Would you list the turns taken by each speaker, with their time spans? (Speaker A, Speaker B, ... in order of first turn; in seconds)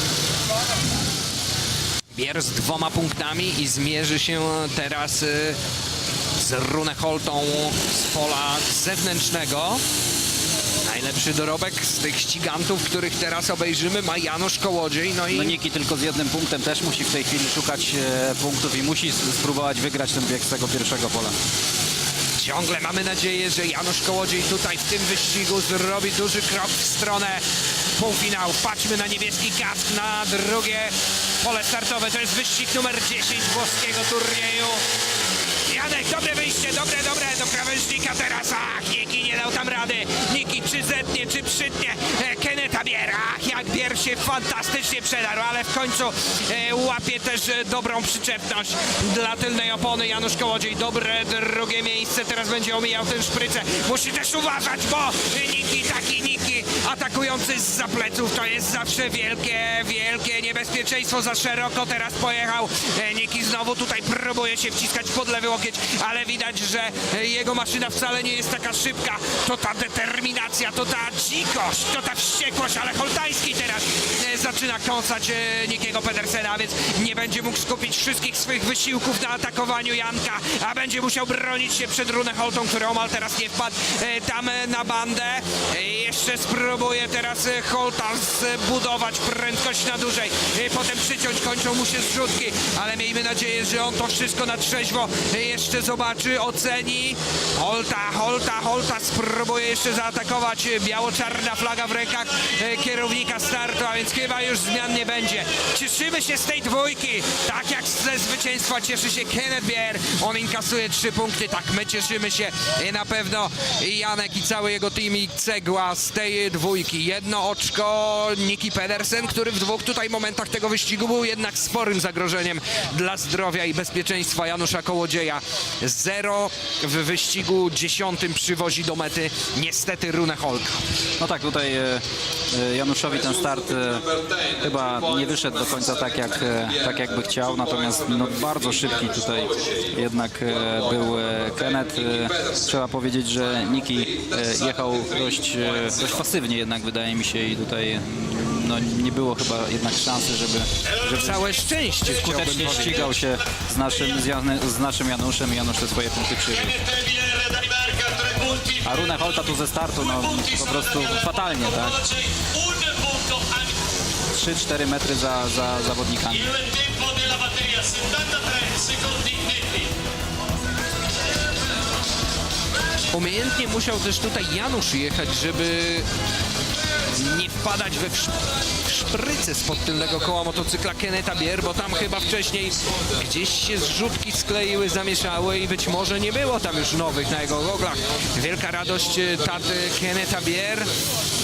Speaker A: 2.1-5.6, 6.4-9.8, 10.8-15.6, 22.4-27.4, 28.0-34.8, 35.7-130.8, 151.1-153.2, 173.1-176.1, 177.1-190.9
Speaker B: 15.3-21.3, 131.2-151.5, 152.1-156.8, 158.7-162.1, 164.3-166.6
Speaker C: 167.2-169.8